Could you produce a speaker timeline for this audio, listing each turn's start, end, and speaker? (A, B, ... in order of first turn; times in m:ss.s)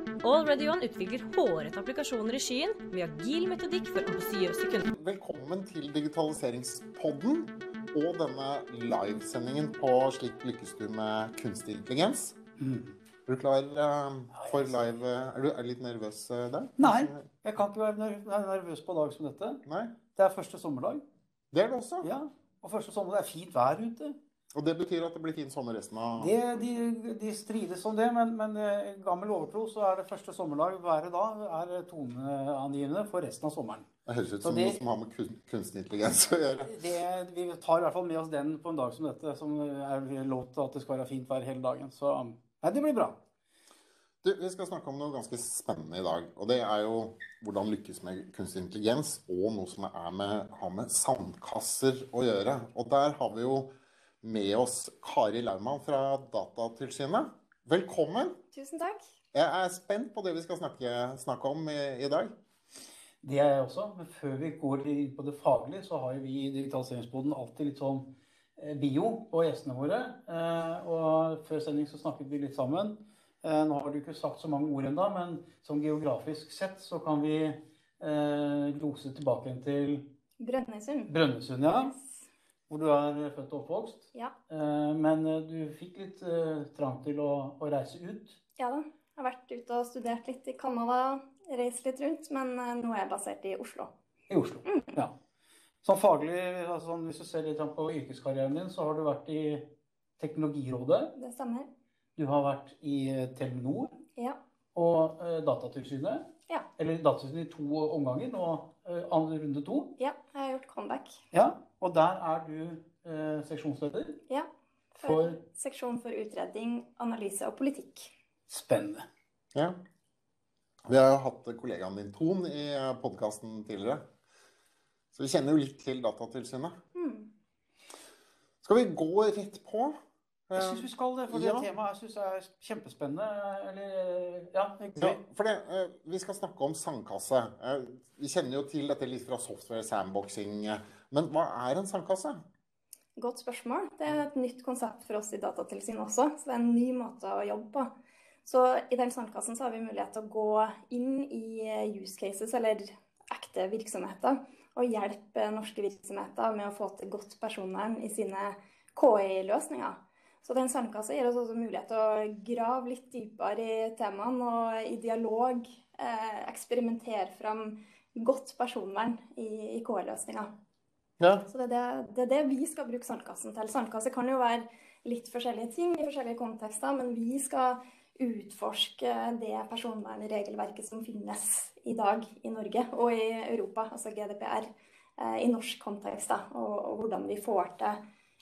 0:00.2-0:04.9 A
0:04.9-0:12.4 B
0:12.6-0:12.9 C
0:13.3-0:17.3 B
0:16.8-0:21.0 C
0:19.6-0:19.9 B
0:21.5-0:22.1 B
0:22.0-0:24.2 C
0:24.5-0:26.3 B
0:26.2-0:33.9 C
0:34.1-0:36.8 B
0:34.4-0:34.8 C
0:36.6-0:43.2 C
0:44.2-0:53.7 B
0:54.2-0:58.4 B
0:58.5-0:59.0 D
0:59.3-1:02.3 B
1:03.2-1:20.1 C
1:20.4-1:21.1 D
1:21.1-1:22.0 C
1:21.8-1:22.1 D
1:22.7-1:28.4 C
1:28.6-1:33.9 D
1:34.3-1:35.1 C
1:34.6-1:34.9 D
1:35.8-1:41.2 C
1:41.2-1:41.7 D
1:42.2-1:43.9 C
1:44.7-1:50.0 C
1:50.0-1:51.2 D
1:51.3-1:54.2 C
1:54.3-1:58.1 D
1:55.0-1:55.4 C
1:58.5-1:59.0 C
2:00.9-2:04.0 B
2:05.1-2:06.8 B
2:06.9-2:07.3 D
2:08.6-2:10.0 B
2:10.5-2:11.7 B
2:10.5-2:15.2 C
2:15.0-2:22.4 B
2:23.2-2:27.9 D
2:28.4-2:50.5 D
2:51.2-2:51.4 B
2:51.5-3:08.0 D